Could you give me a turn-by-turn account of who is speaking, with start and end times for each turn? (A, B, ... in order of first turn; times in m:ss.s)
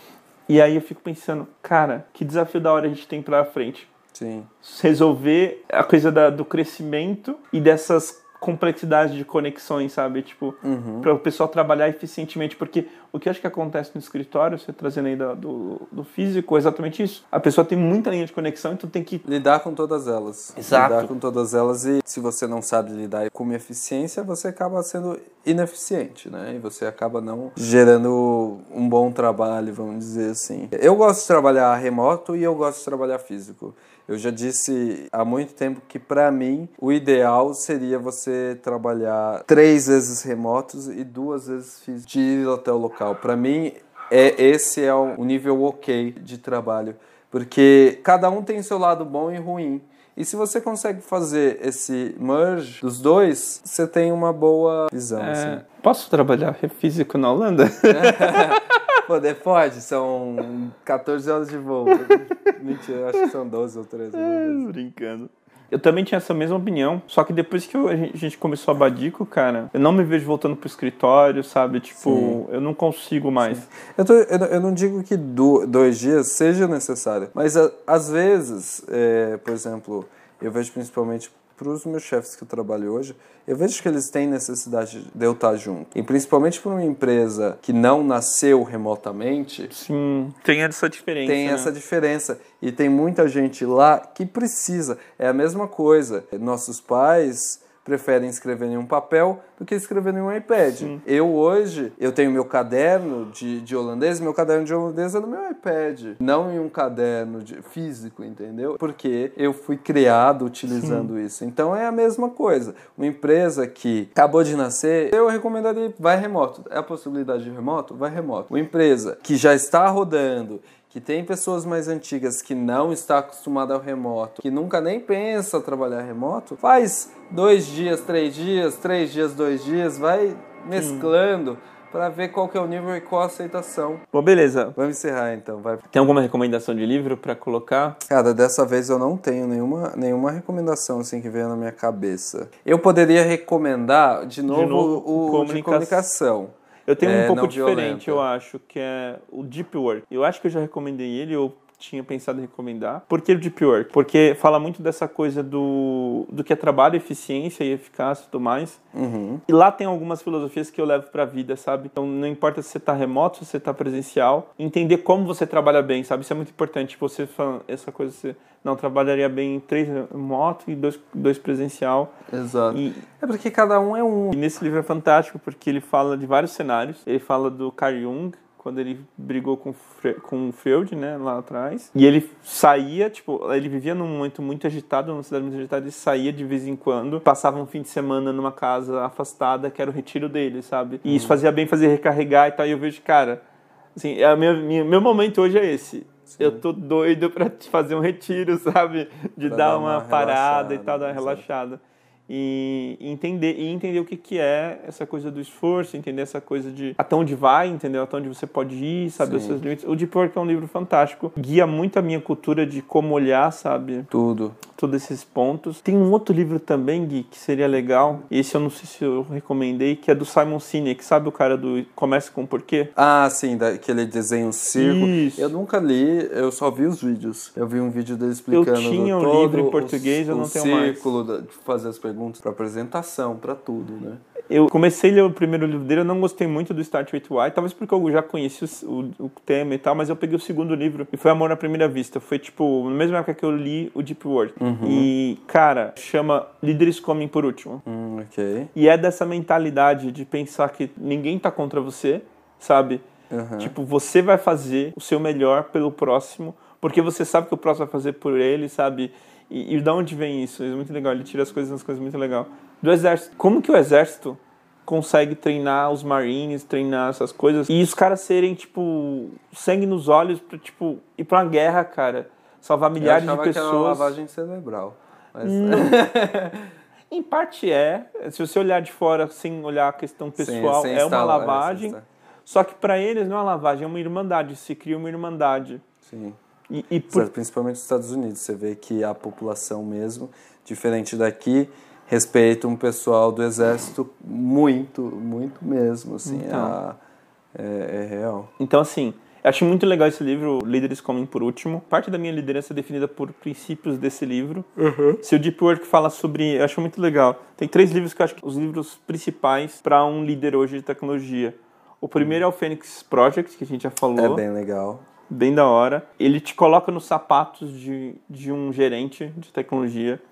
0:00.5-0:03.9 A
0:04.1-0:04.5 B
0:04.6-0:19.3 A
0:10.6-0:11.1 B
0:19.2-0:55.6 B
0:20.6-0:21.1 A
0:55.2-0:58.7 A
0:57.9-1:04.7 B
1:04.2-1:13.7 A
1:12.0-1:12.4 B
1:13.4-1:29.7 B
1:29.7-1:31.7 A
1:31.2-2:14.0 B
1:50.8-1:51.1 A
2:10.8-2:11.1 A
2:14.1-2:14.8 A
2:14.8-2:15.9 B
2:15.9-2:18.0 A
2:18.0-2:28.2 B
2:24.5-2:26.0 A
2:26.9-2:38.8 A
2:38.9-2:39.4 B
2:39.5-2:52.1 A
2:52.3-2:54.4 B
2:52.7-2:53.1 A
2:54.3-3:13.4 A
3:11.1-3:11.4 B
3:14.0-3:34.1 A
3:16.3-3:16.6 B
3:19.4-3:21.5 B
3:29.2-3:29.6 B
3:34.1-3:34.6 B
3:34.7-3:42.9 A
3:43.0-3:54.2 B
3:44.8-3:45.5 A
3:48.5-3:51.1 A
3:54.5-4:07.8 A
4:04.6-4:05.1 B
4:07.9-4:08.7 B
4:08.8-4:13.0 A
4:13.3-4:13.7 B
4:13.6-4:34.1 A
4:33.0-4:36.7 B
4:35.4-4:36.0 A
4:37.1-4:45.8 A
4:40.4-4:42.0 B
4:46.0-4:46.4 B
4:46.7-4:47.3 A
4:47.1-4:57.0 B
4:56.2-4:56.8 A
4:57.5-4:58.5 B
4:58.6-5:04.7 A
5:04.8-5:05.2 B
5:05.2-5:14.4 A
5:14.2-5:15.0 B
5:15.3-5:20.2 A